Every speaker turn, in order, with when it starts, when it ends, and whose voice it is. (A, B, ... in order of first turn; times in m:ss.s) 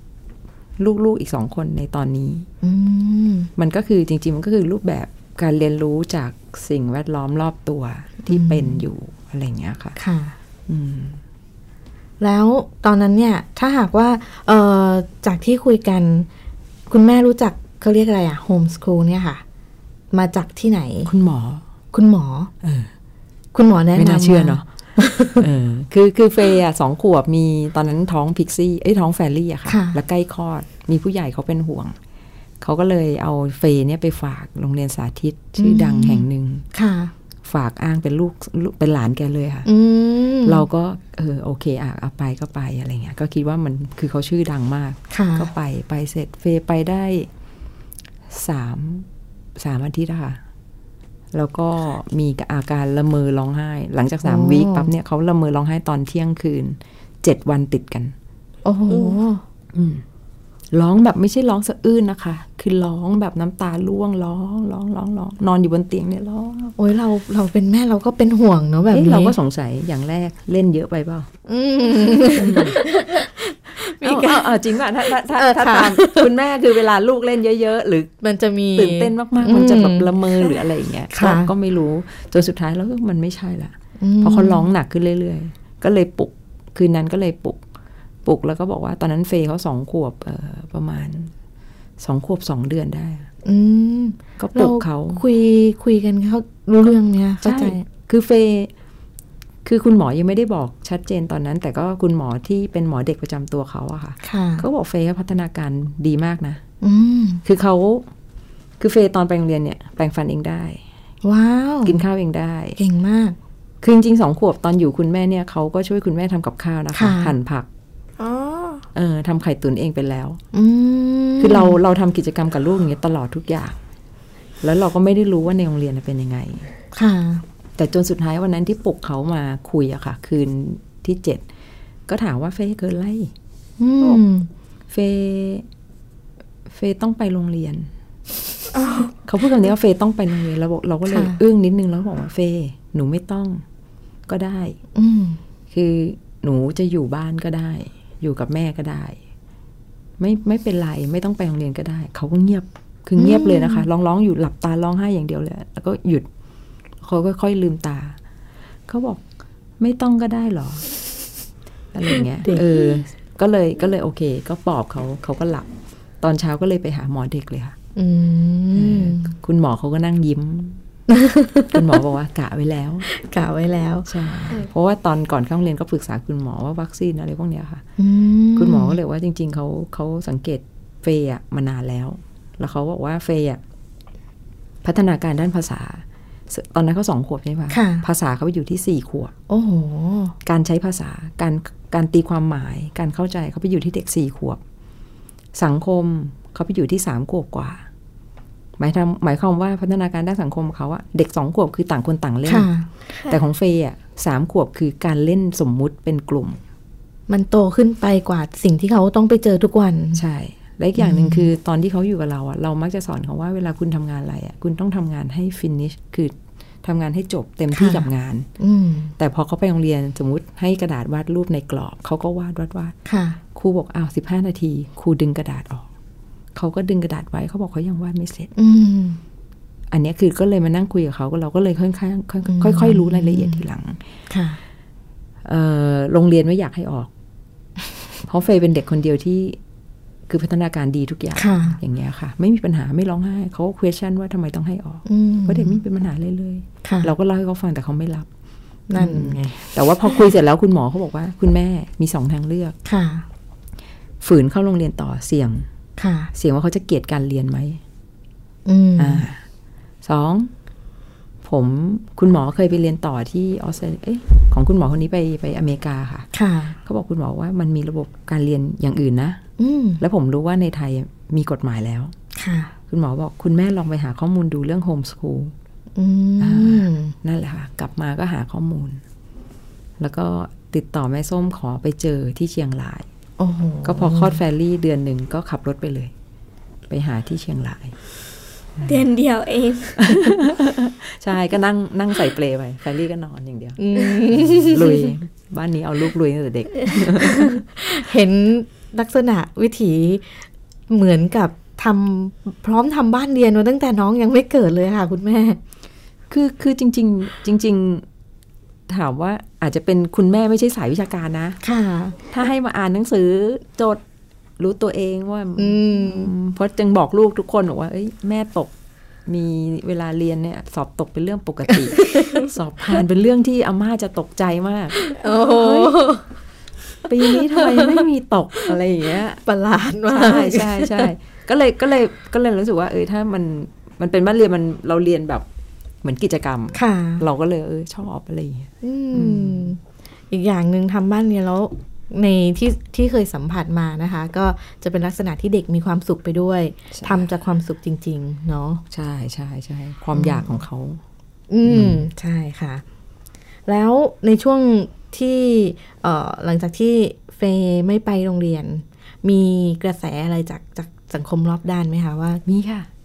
0:00.8-0:02.5 A
0:02.6-0:03.5 B
0:03.6-0:10.0 A
0:08.3-0:08.8 B
0:10.0-0:10.4 B
0:10.7-0:11.2 A
0:12.2-0:16.3 B
0:16.9-0:19.4 B
0:20.1-0:21.1 B
0:21.1-0:21.6 A
0:21.9-0:22.5 B
0:22.6-0:22.9 A
0:23.5-0:25.4 B
0:24.0-0:24.7 A
0:25.4-0:32.0 A
0:29.7-0:30.0 B
0:32.6-0:36.6 A
0:35.6-0:37.1 B
0:37.4-0:39.7 A
0:39.7-0:40.6 B
0:40.4-0:47.3 A
0:45.1-0:45.5 B
0:48.3-0:50.4 A
0:51.3-0:58.1 A
0:54.2-0:54.9 B
0:58.6-0:59.4 B
0:58.9-0:59.2 C
0:59.7-1:00.0 A
1:00.7-1:06.8 A
1:06.8-1:09.4 B
1:08.9-1:11.3 A
1:11.5-1:16.3 B
1:12.3-1:12.8 A
1:14.0-1:18.1 A
1:18.2-1:20.1 B
1:18.8-1:27.6 A
1:21.1-1:21.5 B
1:24.0-1:24.7 B
1:28.2-1:31.3 A
1:32.0-1:33.3 A
1:33.4-1:37.8 B
1:34.4-1:35.2 A
1:37.4-1:38.7 A
1:39.6-1:46.6 A
1:44.2-1:44.7 B
1:46.8-1:47.4 B
1:47.4-1:48.1 A
1:48.8-1:50.8 A
1:51.2-1:52.0 B
1:51.8-1:52.8 A
1:52.8-1:53.4 B
1:53.8-1:57.7 A
1:56.9-1:57.3 B
1:58.2-1:58.8 C
1:58.9-2:00.4 A
2:00.5-2:01.8 B
2:01.4-2:03.8 A
2:04.6-2:06.7 A
2:06.9-2:07.4 B
2:07.8-2:11.4 A
2:12.1-2:13.3 A
2:13.8-2:14.5 B
2:14.9-2:15.7 A
2:16.7-2:17.9 A
2:19.2-2:23.6 A
2:21.1-2:21.4 B
2:24.3-2:24.8 A
2:25.0-2:25.4 B
2:25.7-2:29.2 A
2:30.2-2:36.3 A
2:33.2-2:33.9 B
2:37.0-2:38.2 A
2:38.9-2:39.2 A
2:39.8-2:40.9 A
2:41.9-2:45.7 A
2:42.4-2:42.7 B
2:46.2-2:47.8 A
2:48.0-2:49.3 B
2:48.7-2:50.8 A
2:51.1-2:51.8 B
2:51.7-2:53.1 A
2:53.1-2:54.1 B
2:54.1-2:57.8 A
2:58.0-2:59.0 B
2:58.6-3:03.6 A
3:04.8-3:09.3 A
3:07.7-3:08.0 B
3:09.5-3:10.4 B
3:10.4-3:14.6 A
3:15.6-3:17.8 A
3:18.8-3:22.7 A
3:22.5-3:22.9 B
3:23.3-3:26.6 A
3:27.3-3:30.2 B
3:30.2-3:38.5 A
3:31.0-3:31.5 B
3:37.7-3:39.1 B
3:39.2-3:43.0 A
3:43.1-3:43.4 B
3:43.6-3:45.9 A
3:46.6-3:48.5 A
3:48.6-3:49.2 B
3:49.9-3:54.0 A
3:52.5-3:53.6 B
3:54.3-3:54.6 B
3:55.4-3:57.1 A
3:58.2-3:59.6 A
4:00.3-4:08.3 A
4:01.4-4:01.8 B
4:05.1-4:05.8 B
4:06.8-4:07.1 B
4:08.9-4:09.6 B
4:09.0-4:12.8 A
4:12.8-4:13.3 B
4:14.2-4:15.7 A
4:16.0-4:16.3 B
4:16.3-4:17.8 A
4:18.7-4:19.3 B
4:19.0-4:19.4 A
4:20.0-4:20.5 A
4:21.4-4:26.3 A
4:26.3-4:26.8 B
4:26.8-4:29.4 A
4:29.6-4:30.0 B
4:30.0-4:32.1 A
4:32.4-4:32.7 B
4:32.9-4:35.5 A
4:36.0-4:37.1 B
4:36.4-4:39.0 A
4:40.0-4:43.1 A
4:43.4-4:44.4 B
4:43.8-4:46.1 A
4:46.9-4:48.0 A
4:48.8-4:49.0 A
4:48.8-4:50.4 C
4:50.0-4:57.6 A
4:53.8-4:55.1 B
4:57.4-5:05.6 B
5:06.3-5:08.1 A
5:08.9-5:11.6 A
5:11.6-5:12.2 B
5:12.2-5:14.0 A
5:14.6-5:18.7 A
5:15.6-5:16.3 B
5:19.3-5:26.1 A
5:21.7-5:22.4 B
5:25.1-5:26.2 B
5:27.1-5:29.4 A
5:27.2-5:28.0 B
5:29.4-5:31.1 B
5:30.1-5:35.5 A
5:36.0-5:39.7 A
5:36.7-5:37.2 B
5:38.8-5:39.8 B
5:40.3-5:48.8 B
5:46.9-5:47.3 A
5:48.9-5:51.0 A
5:50.1-5:50.6 B
5:51.5-5:52.8 B
5:51.6-5:52.0 A
5:53.7-6:02.4 B
6:02.4-6:02.9 A